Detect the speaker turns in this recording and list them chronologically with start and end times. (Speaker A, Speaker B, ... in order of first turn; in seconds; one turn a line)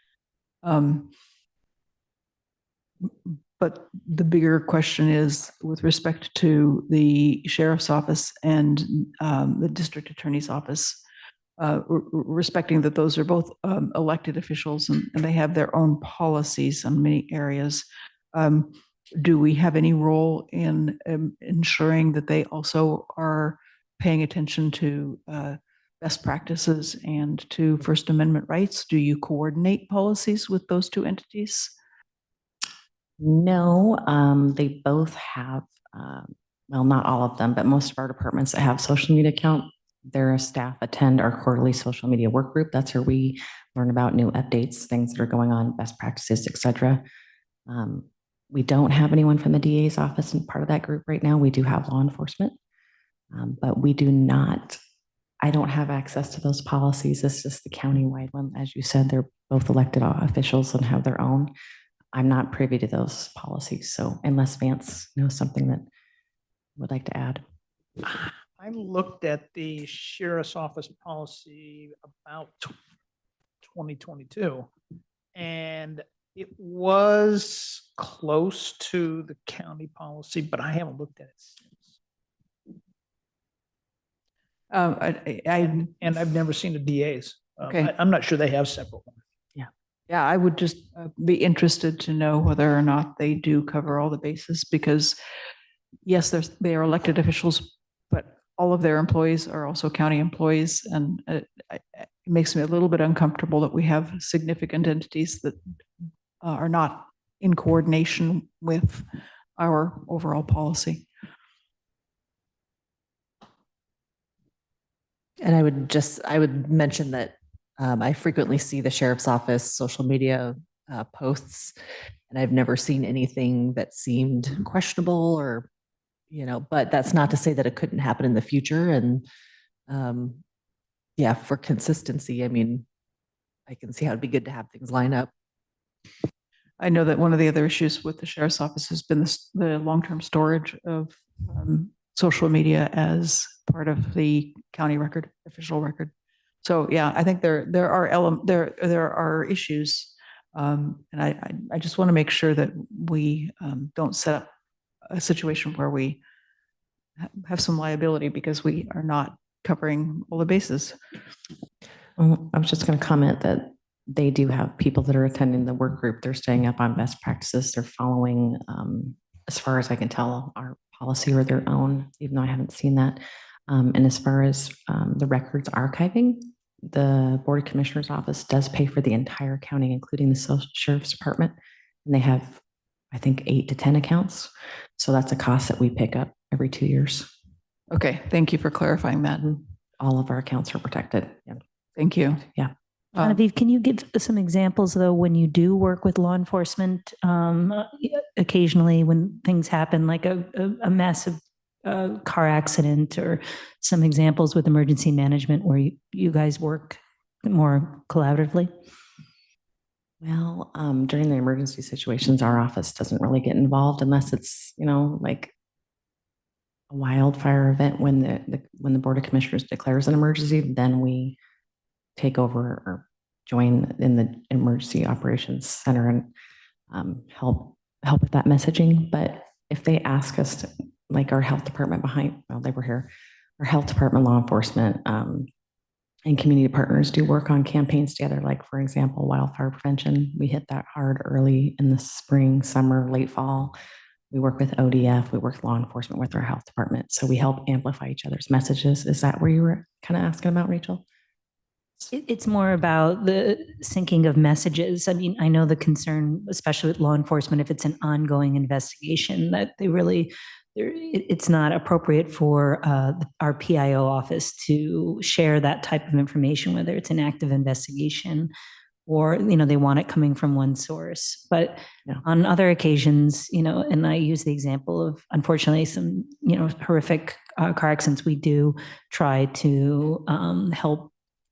Speaker A: 0.6-1.1
Speaker A: 3.0-11.0
Speaker A: 11.6-31.8
Speaker B: 33.2-47.0
Speaker B: 47.7-52.6
Speaker B: 53.3-54.8
Speaker B: 55.4-61.5
Speaker B: 62.1-65.9
Speaker B: 66.8-67.4
Speaker C: 68.1-72.8
Speaker C: 73.6-74.7
Speaker C: 75.3-81.9
Speaker A: 84.7-85.9
Speaker C: 85.8-89.2
Speaker A: 90.1-95.2
Speaker A: 96.1-105.6
Speaker A: 106.4-111.1
Speaker D: 115.4-121.7
Speaker D: 122.3-125.7
Speaker D: 126.3-129.2
Speaker D: 129.9-130.4
Speaker D: 131.2-132.9
Speaker D: 133.7-135.3
Speaker A: 136.8-154.5
Speaker A: 155.1-156.2
Speaker A: 157.2-161.0
Speaker B: 162.2-181.5
Speaker B: 182.1-182.6
Speaker B: 183.1-187.3
Speaker A: 187.9-189.6
Speaker B: 190.0-191.6
Speaker A: 192.0-192.4
Speaker A: 193.1-193.4
Speaker E: 193.2-208.7
Speaker B: 210.2-215.5
Speaker B: 216.9-221.4
Speaker B: 222.2-226.3
Speaker B: 226.9-235.5
Speaker B: 236.3-243.8
Speaker B: 244.3-251.0
Speaker E: 252.1-268.5
Speaker E: 269.1-281.1